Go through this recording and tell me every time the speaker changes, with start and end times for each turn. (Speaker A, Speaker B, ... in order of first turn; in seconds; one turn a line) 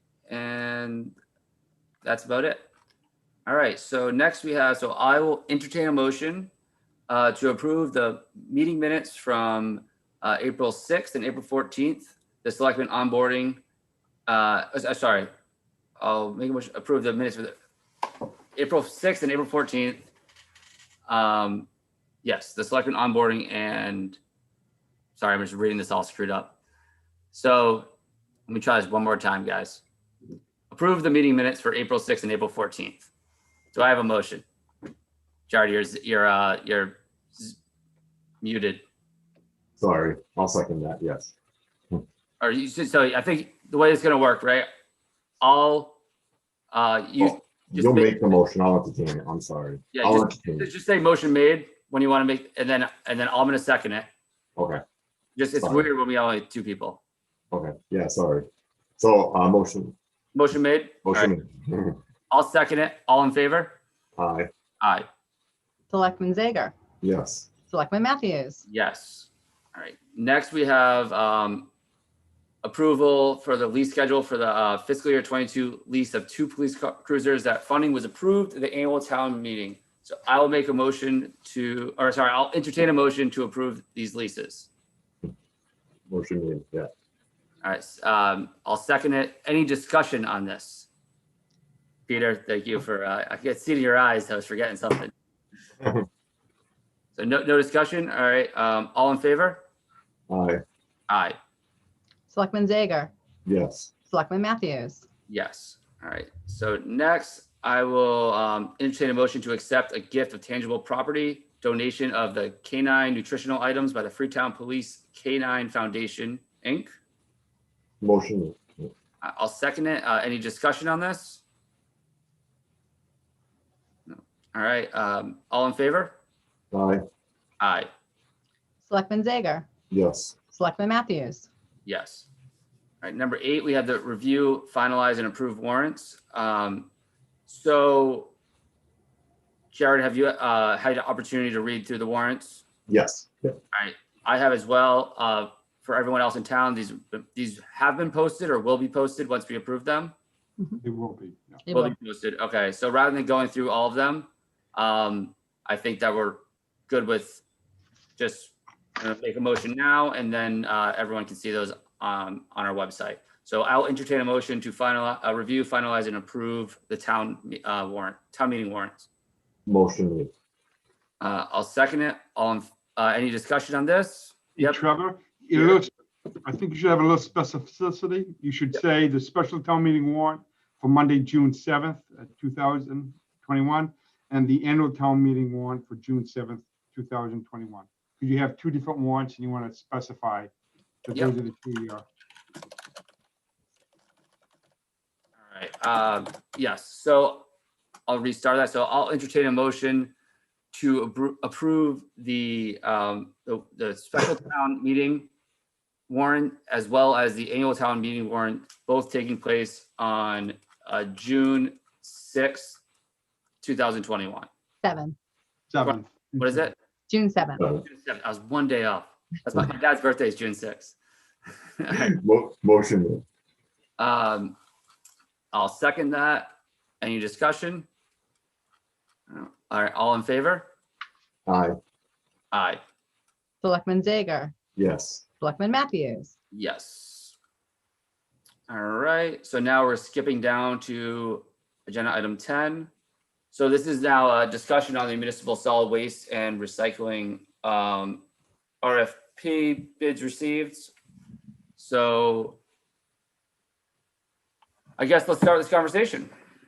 Speaker A: 0.3-1.2
Speaker A: 2.0-2.7
Speaker A: 3.5-6.5
Speaker A: 7.1-13.6
Speaker A: 14.3-15.3
Speaker A: 16.0-17.6
Speaker A: 18.5-20.1
Speaker A: 21.1-21.7
Speaker A: 22.2-24.2
Speaker A: 25.2-26.6
Speaker A: 27.3-27.9
Speaker A: 28.5-29.8
Speaker A: 30.7-33.1
Speaker A: 33.7-34.5
Speaker A: 35.5-37.5
Speaker A: 38.4-38.8
Speaker B: 39.8-41.3
Speaker A: 42.4-44.7
Speaker A: 45.4-46.0
Speaker A: 46.7-48.4
Speaker B: 47.2-50.7
Speaker A: 49.9-54.1
Speaker B: 54.6-54.8
Speaker A: 55.4-57.0
Speaker B: 55.6-55.9
Speaker B: 57.5-58.5
Speaker B: 59.0-60.0
Speaker A: 60.3-61.3
Speaker B: 61.0-62.0
Speaker A: 62.3-63.8
Speaker B: 64.2-64.5
Speaker A: 64.8-65.1
Speaker C: 65.9-66.7
Speaker B: 67.0-67.5
Speaker C: 67.7-68.6
Speaker A: 68.7-71.7
Speaker A: 72.6-84.7
Speaker B: 86.1-86.9
Speaker A: 87.6-90.9
Speaker A: 92.1-95.1
Speaker A: 97.2-99.6
Speaker B: 100.3-100.6
Speaker A: 101.1-101.4
Speaker C: 102.3-103.1
Speaker B: 103.5-103.9
Speaker C: 104.1-105.1
Speaker A: 105.3-117.0
Speaker B: 118.0-118.9
Speaker A: 119.2-121.4
Speaker A: 124.1-126.2
Speaker B: 126.7-127.0
Speaker A: 127.6-127.9
Speaker C: 128.8-129.7
Speaker B: 129.9-130.4
Speaker C: 130.5-131.5
Speaker A: 131.8-132.3
Speaker A: 133.0-136.9
Speaker A: 137.5-138.3
Speaker A: 139.7-142.6
Speaker B: 142.9-143.6
Speaker A: 143.7-150.1
Speaker D: 150.8-151.6
Speaker C: 151.7-151.9
Speaker A: 151.7-157.4
Speaker A: 158.2-169.1
Speaker B: 169.7-170.3
Speaker A: 171.2-174.8
Speaker D: 174.6-175.9
Speaker D: 176.4-190.5
Speaker D: 191.1-192.0
Speaker A: 195.4-197.5
Speaker A: 198.1-200.1
Speaker A: 200.7-205.3
Speaker A: 206.1-212.8
Speaker A: 213.6-214.5
Speaker C: 214.8-215.2
Speaker D: 215.7-216.7
Speaker A: 215.8-216.8
Speaker C: 217.1-217.6
Speaker B: 217.6-217.8
Speaker A: 217.8-221.0
Speaker A: 221.8-222.1
Speaker B: 221.9-223.2
Speaker A: 224.0-224.6
Speaker A: 225.5-227.9
Speaker A: 229.3-230.7
Speaker B: 231.5-231.8
Speaker A: 232.5-232.8
Speaker C: 233.6-234.6
Speaker B: 234.8-235.2
Speaker C: 235.4-236.3
Speaker A: 236.5-237.4
Speaker A: 238.7-242.9
Speaker A: 243.5-248.2
Speaker A: 248.8-250.9
Speaker A: 251.8-252.6
Speaker A: 255.0-256.3